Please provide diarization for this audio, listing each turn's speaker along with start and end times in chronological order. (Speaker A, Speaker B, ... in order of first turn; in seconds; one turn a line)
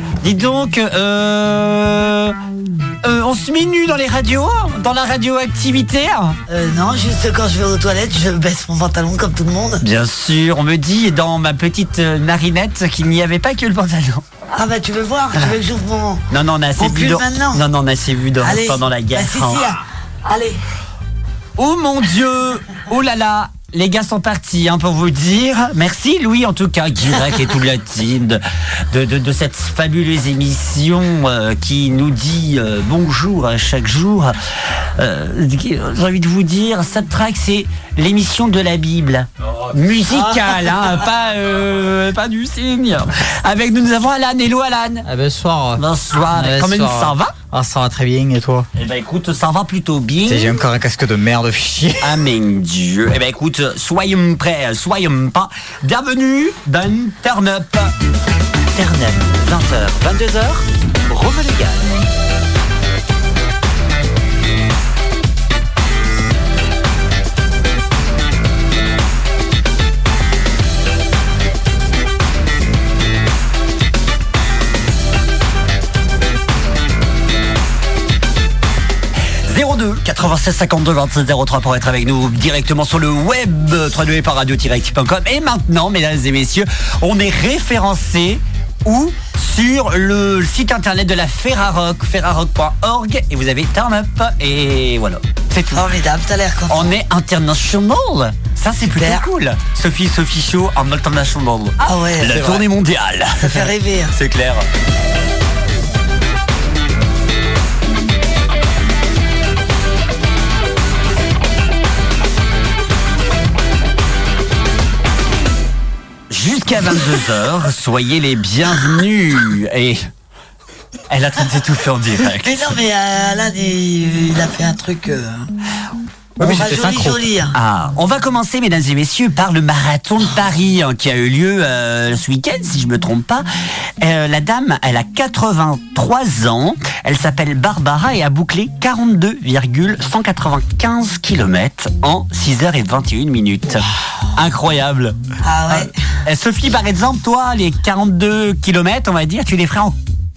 Speaker A: 0.2-2.4
Speaker A: 3.0-6.4
Speaker B: 6.5-9.8
Speaker A: 9.8-14.2
Speaker B: 14.5-16.2
Speaker A: 16.3-19.7
Speaker B: 16.8-17.6
Speaker B: 18.4-20.6
Speaker A: 21.6-34.4
Speaker A: 35.0-45.1
Speaker C: 45.0-48.7
Speaker A: 45.8-47.3
Speaker A: 48.7-50.6
Speaker C: 50.2-52.1
Speaker A: 52.0-57.9
Speaker A: 58.7-61.9
Speaker A: 79.5-95.8
Speaker B: 95.7-96.9
Speaker A: 96.7-104.6
Speaker B: 98.8-99.2
Speaker B: 101.8-102.6
Speaker B: 103.4-104.1
Speaker A: 116.3-120.0
Speaker A: 121.1-122.8
Speaker B: 122.4-125.5
Speaker C: 126.4-127.2
Speaker A: 126.4-133.4
Speaker B: 126.4-127.5
Speaker A: 134.0-145.2
Speaker B: 145.4-145.9
Speaker A: 145.7-149.9